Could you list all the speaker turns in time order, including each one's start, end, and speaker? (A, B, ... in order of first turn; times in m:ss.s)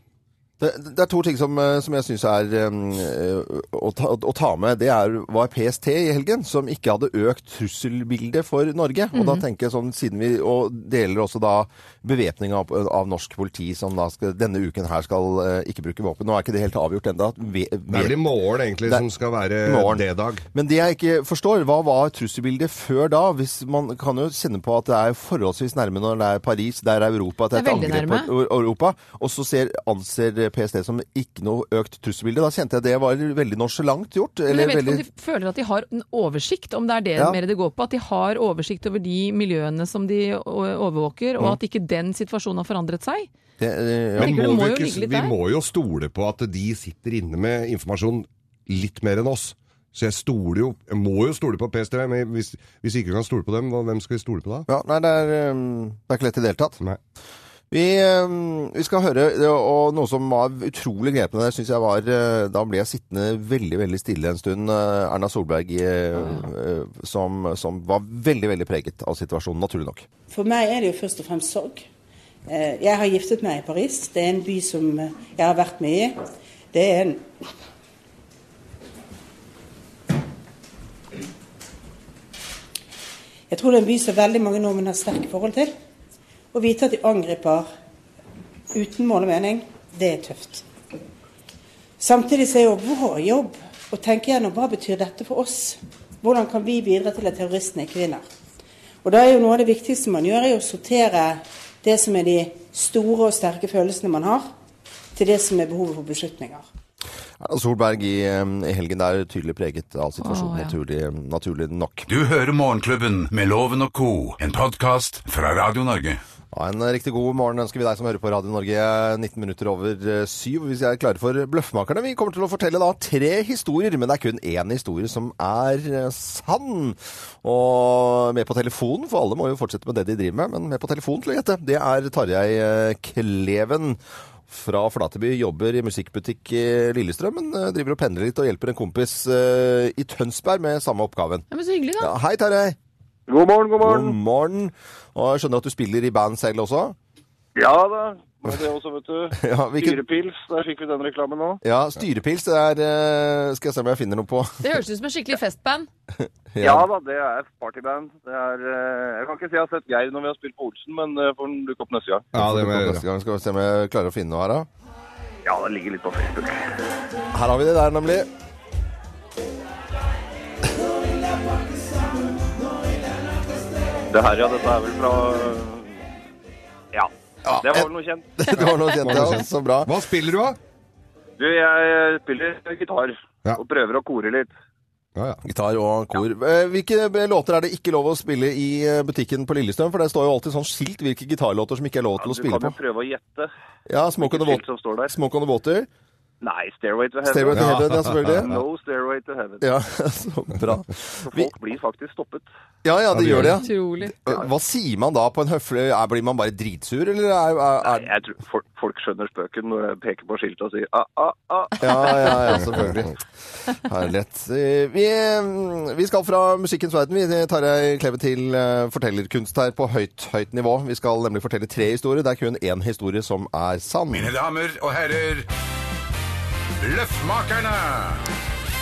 0:00.6-0:18.2 A
0:09.1-0:09.4 B
0:17.9-0:20.5 C
0:19.6-0:35.0 A
0:27.5-0:28.3 B
0:34.5-0:43.3 B
0:43.6-0:44.4 A
0:44.2-0:54.7 C
0:44.2-0:45.4 B
0:54.7-0:56.8 A
0:57.7-1:10.1 A
1:10.3-1:11.9 D
1:12.5-1:16.2 D
1:16.7-1:17.3 D
1:23.5-1:25.7 D
1:26.5-1:27.7 D
1:28.7-1:30.7 D
1:32.0-1:38.2 D
1:39.0-1:44.5 D
1:45.1-1:46.6 D
1:47.4-1:52.1 A
1:50.2-1:50.8 B
1:52.1-1:56.2 E
1:56.5-2:21.5 A
2:21.5-2:22.1 B
2:22.0-2:22.8 A
2:23.3-2:24.2 F
2:23.8-2:27.0 A
2:27.6-2:31.6 F
2:29.4-2:30.0 A
2:31.6-2:34.7 A
2:34.6-2:35.9 B
2:36.2-2:36.9 A
2:36.6-2:42.3 F
2:42.3-2:43.0 C
2:42.3-2:44.7 A
2:45.4-2:46.7 F
2:47.3-2:48.3 A
2:54.1-2:56.1 F
2:56.9-2:58.9 F
2:57.4-2:59.9 A
2:59.0-3:00.6 C
3:01.4-3:04.5 F
3:05.2-3:05.4 C
3:05.4-3:12.8 A
3:12.2-3:13.5 F
3:13.9-3:15.9 A
3:14.2-3:15.2 F
3:16.4-3:19.7 F
3:17.2-3:18.5 A
3:17.5-3:18.6 C
3:19.6-3:21.5 A
3:21.2-3:22.5 F
3:22.8-3:28.1 A
3:23.1-3:23.6 C
3:23.3-3:24.4 B
3:27.8-3:32.5 F
3:31.8-3:44.3 A
3:32.7-3:33.0 C
3:44.1-3:45.5 E
3:46.8-3:48.2 E